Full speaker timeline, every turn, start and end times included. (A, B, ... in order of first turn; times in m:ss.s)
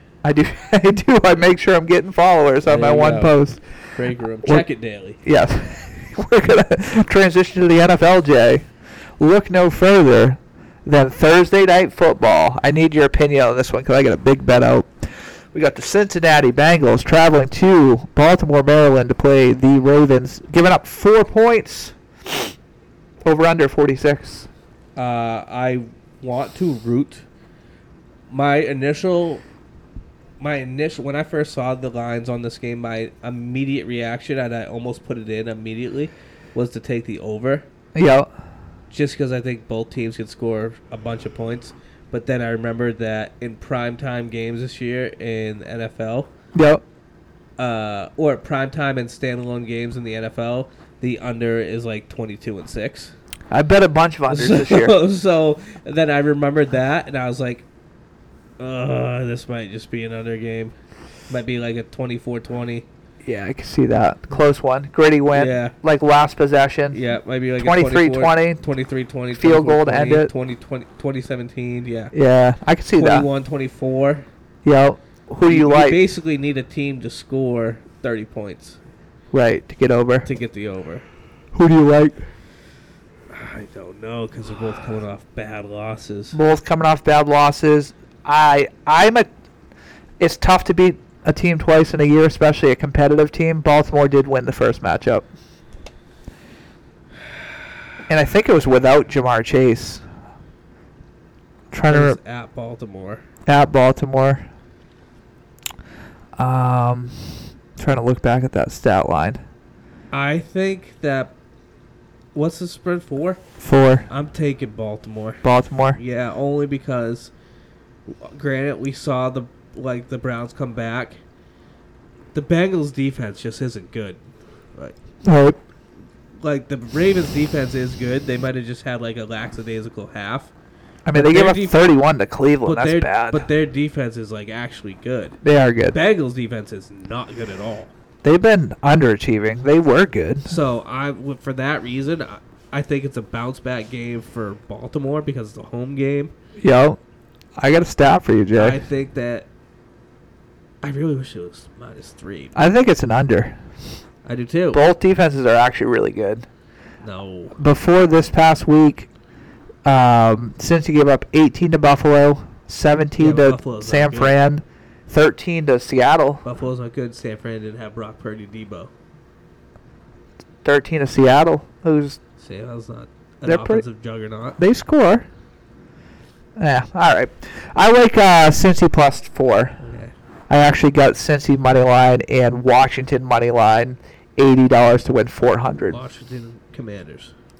0:00.2-0:03.6 A
0:02.6-0:03.4 B
0:03.9-0:05.2 B
0:05.2-0:08.6 A
0:09.2-0:14.9 A
0:15.5-0:22.0 A
0:23.2-0:24.5 A
0:25.0-0:27.2 B
0:28.3-0:29.4 B
0:30.4-0:37.6 B
0:37.9-0:38.3 A
0:38.9-0:46.3 B
0:46.5-0:46.8 A
0:47.6-0:53.1 B
0:53.5-0:54.9 A
0:54.3-0:57.6 B
0:58.6-1:00.7 B
1:01.3-1:02.8 B
1:03.2-1:07.0 A
1:05.3-1:05.7 B
1:06.9-1:12.1 B
1:07.6-1:08.6 A
1:09.3-1:10.3 A
1:12.1-1:13.3 A
1:13.0-1:14.2 B
1:14.6-1:16.0 A
1:15.4-1:18.8 B
1:19.3-1:20.3 A
1:20.2-1:21.0 B
1:21.5-1:22.2 A
1:23.3-1:26.4 B
1:26.3-1:29.3 A
1:30.2-1:35.2 A
1:38.1-1:40.0 A
1:41.7-1:42.2 A
1:41.9-1:43.2 B
1:43.5-1:44.5 A
1:46.4-1:49.4 A
1:50.1-1:51.3 B
1:52.3-1:53.4 B
1:53.6-1:54.1 A
1:54.1-1:55.4 B
1:55.4-1:56.0 A
1:55.9-1:57.3 B
1:58.1-2:01.2 B
2:02.3-2:04.2 B
2:05.2-2:05.6 A
2:06.4-2:10.5 B
2:11.0-2:13.4 A
2:11.1-2:11.9 B
2:12.6-2:15.4 B
2:15.4-2:16.0 A
2:15.9-2:17.9 B
2:18.2-2:20.5 A
2:20.4-2:26.3 B
2:26.6-2:27.0 A
2:27.6-2:28.8 A
2:28.5-2:29.5 B
2:30.8-2:32.6 B
2:32.5-2:33.6 A
2:34.2-2:34.8 B
2:34.7-2:36.4 A
2:37.0-2:37.6 B
2:37.6-2:39.1 A
2:39.8-2:46.4 A
2:43.2-2:44.3 B
2:46.4-2:48.9 B
2:50.6-2:52.2 A
2:52.4-2:54.6 B
2:53.4-2:53.8 A
2:54.6-2:55.2 A
2:56.6-2:59.8 A
2:59.8-3:00.1 B
3:00.5-3:06.0 A
3:05.9-3:07.3 B